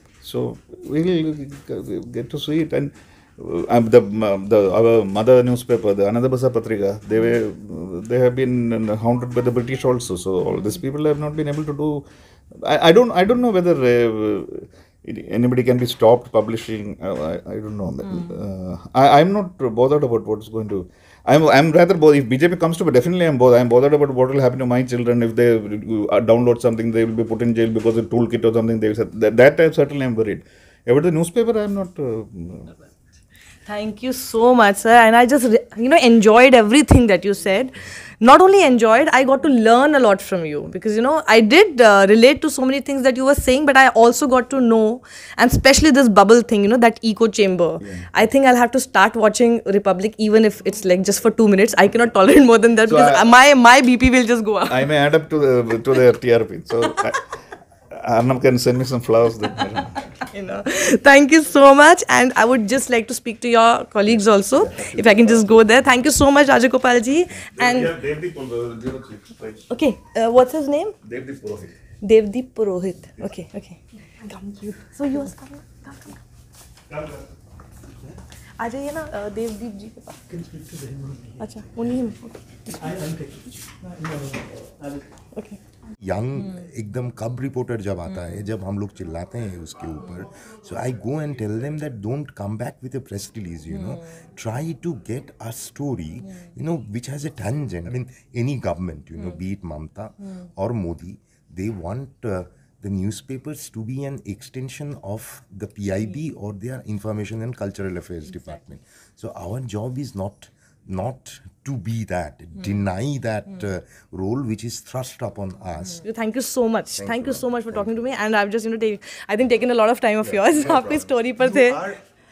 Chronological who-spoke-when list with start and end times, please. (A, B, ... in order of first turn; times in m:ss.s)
0:00.2-0:32.7 A
0:33.7-0:54.9 B
0:47.8-0:48.0 A
0:52.8-0:53.2 A
0:54.7-0:57.3 A
0:57.9-1:00.0 A
1:00.2-1:08.0 B
1:04.6-1:05.6 A
1:07.4-1:09.7 A
1:09.7-1:11.0 B
1:11.0-1:11.7 A
1:12.0-1:16.2 B
1:16.9-1:17.2 A
1:18.6-1:20.3 B
1:21.4-1:23.2 B
1:26.0-1:56.0 C
1:56.0-2:01.8 B
1:56.9-1:58.0 C
2:00.2-2:01.0 A